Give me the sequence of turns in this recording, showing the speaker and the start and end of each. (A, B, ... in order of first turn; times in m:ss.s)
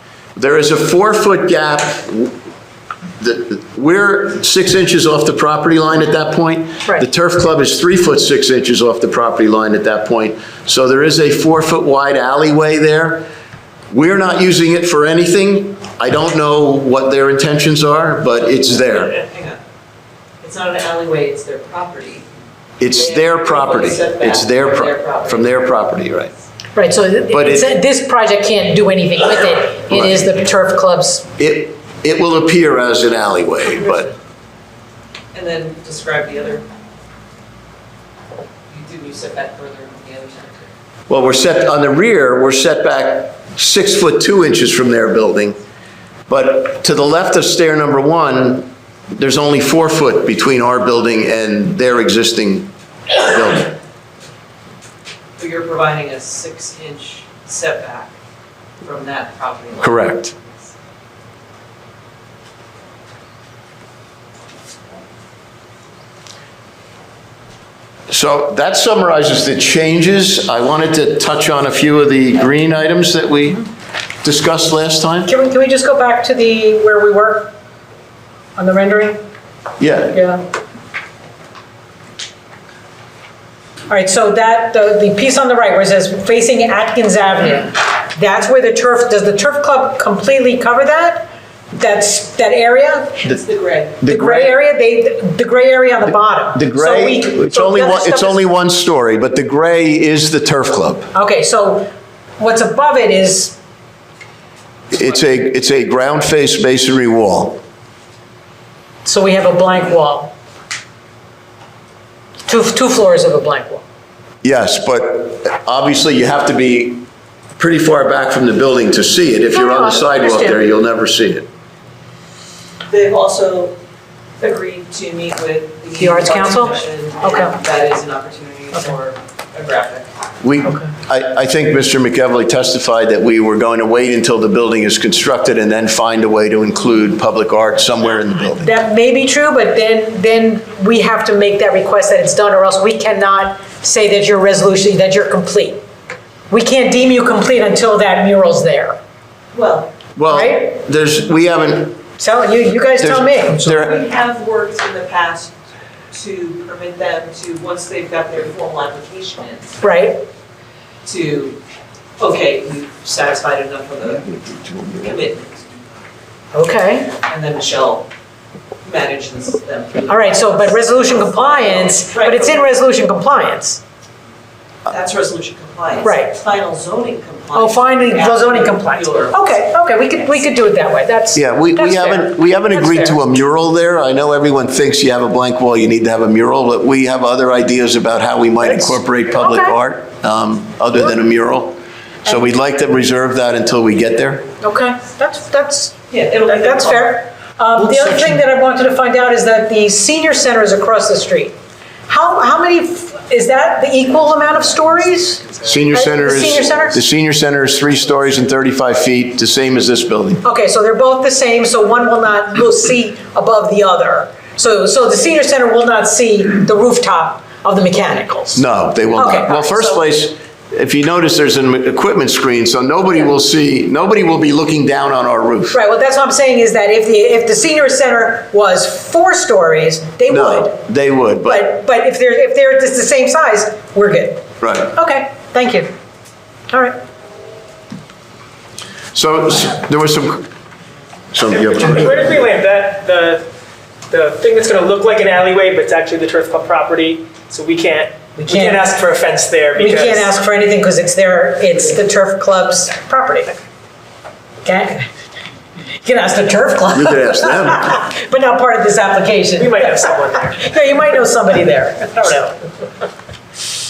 0:00.4-0:02.3 A
0:03.2-0:13.2 A
0:13.9-0:19.2 A
0:18.9-0:19.6 B
0:20.4-0:22.3 B
0:22.8-0:26.3 A
0:22.9-0:25.8 B
0:26.8-0:31.3 C
0:27.3-0:27.7 A
0:29.9-0:30.4 A
0:31.4-0:34.1 A
0:35.3-0:36.7 B
0:38.7-0:40.7 B
0:41.1-0:45.6 A
0:46.3-0:53.8 A
0:55.4-0:58.1 B
0:58.8-1:00.7 B
0:59.8-1:00.3 A
1:08.1-1:13.7 A
1:14.2-1:15.3 A
1:15.3-1:17.5 C
1:18.6-1:19.2 C
1:19.8-1:20.2 A
1:20.1-1:20.4 C
1:23.9-1:33.2 C
1:33.2-1:34.0 B
1:34.0-1:34.6 A
1:34.0-1:38.4 C
1:36.5-1:41.1 A
1:41.1-1:43.6 C
1:44.9-1:47.6 A
1:49.0-1:50.3 C
1:52.5-1:53.8 C
1:54.4-1:57.0 A
1:57.6-2:01.5 A
1:59.5-2:00.6 C
2:02.9-2:03.8 B
2:04.4-2:10.1 B
2:05.9-2:07.6 C
2:10.4-2:18.7 A
2:18.6-2:25.8 C
2:26.5-2:29.0 C
2:29.5-2:30.0 B
2:30.2-2:32.0 A
2:30.3-2:30.7 C
2:32.2-2:33.7 C
2:33.0-2:34.0 A
2:33.6-2:35.6 B
2:36.1-2:39.8 B
2:39.8-2:40.2 C
2:41.0-2:41.6 B
2:42.2-2:45.8 B
2:46.5-2:47.1 C
2:47.2-2:48.1 B
2:48.8-2:52.8 B
2:50.1-2:53.8 C
2:54.9-3:00.5 B
2:56.0-2:56.4 C
2:57.6-3:03.2 C
3:01.3-3:14.4 A
3:08.7-3:09.8 C
3:14.6-3:21.6 C
3:16.1-3:17.2 B
3:22.1-3:27.0 C
3:25.6-3:30.4 A
3:30.4-3:40.0 C
3:38.6-3:45.8 A
3:45.7-3:50.8 C
3:50.3-3:51.7 A
3:51.5-3:55.9 C
3:54.6-3:54.9 A
3:56.7-3:57.0 C
3:59.1-4:00.5 A
4:01.3-4:02.3 A
4:01.5-4:03.5 D
4:04.1-4:10.3 D
4:08.4-4:08.8 C
4:09.8-4:13.6 C
4:14.6-4:15.1 C
4:16.0-4:22.6 C
4:16.9-4:18.0 A
4:19.6-4:20.7 D